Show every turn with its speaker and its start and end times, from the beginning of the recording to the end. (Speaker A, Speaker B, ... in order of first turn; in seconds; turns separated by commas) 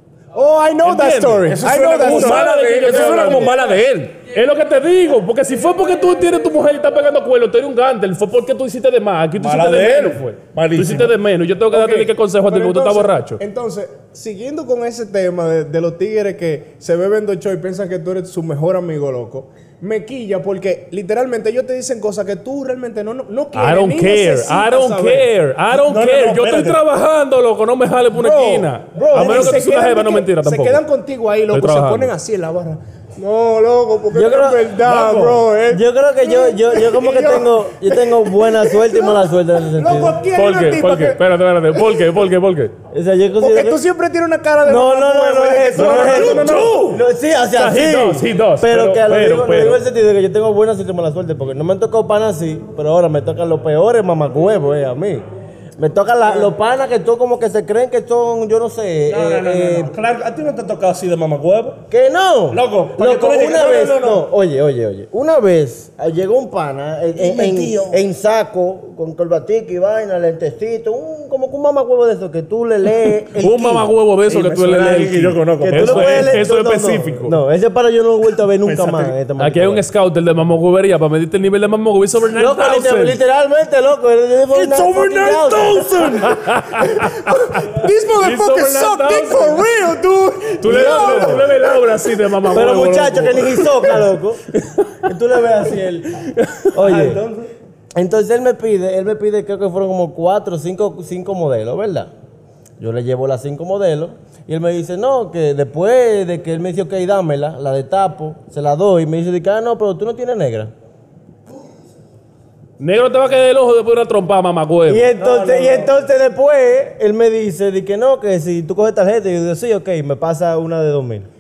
Speaker A: 0.3-3.5, Speaker B: 0.8-4.2, Speaker C: 2.0-3.6, Speaker C: 4.2-13.4, Speaker B: 9.4-11.2, Speaker A: 11.7-25.3, Speaker C: 23.5-30.8, Speaker B: 25.7-26.8, Speaker A: 28.1-39.2, Speaker D: 29.1-29.5, Speaker B: 29.1-29.5, Speaker C: 31.5-32.1, Speaker D: 34.1-40.2, Speaker B: 34.9-35.2, Speaker A: 39.8-41.2, Speaker C: 40.3-42.7, Speaker D: 42.9-43.8, Speaker A: 43.4-46.7, Speaker D: 44.6-55.2, Speaker B: 45.8-47.0, Speaker C: 47.5-49.8, Speaker D: 55.8-59.9, Speaker B: 59.1-61.8, Speaker D: 61.9-73.9, Speaker B: 62.5-64.2, Speaker B: 67.2-68.0, Speaker C: 73.4-77.4, Speaker B: 74.3-76.4, Speaker D: 75.6-79.8, Speaker B: 78.6-79.2, Speaker C: 79.4-83.2, Speaker D: 82.3-86.2, Speaker B: 84.5-86.5, Speaker C: 86.2-89.7, Speaker A: 87.4-91.7, Speaker C: 90.6-94.0, Speaker B: 90.6-91.5, Speaker D: 92.5-94.4, Speaker D: 95.1-96.2, Speaker C: 96.4-96.7, Speaker D: 96.8-97.2, Speaker B: 96.8-97.5, Speaker D: 98.0-102.1, Speaker D: 102.8-110.7, Speaker C: 112.8-115.1, Speaker D: 114.9-121.3, Speaker B: 115.1-116.0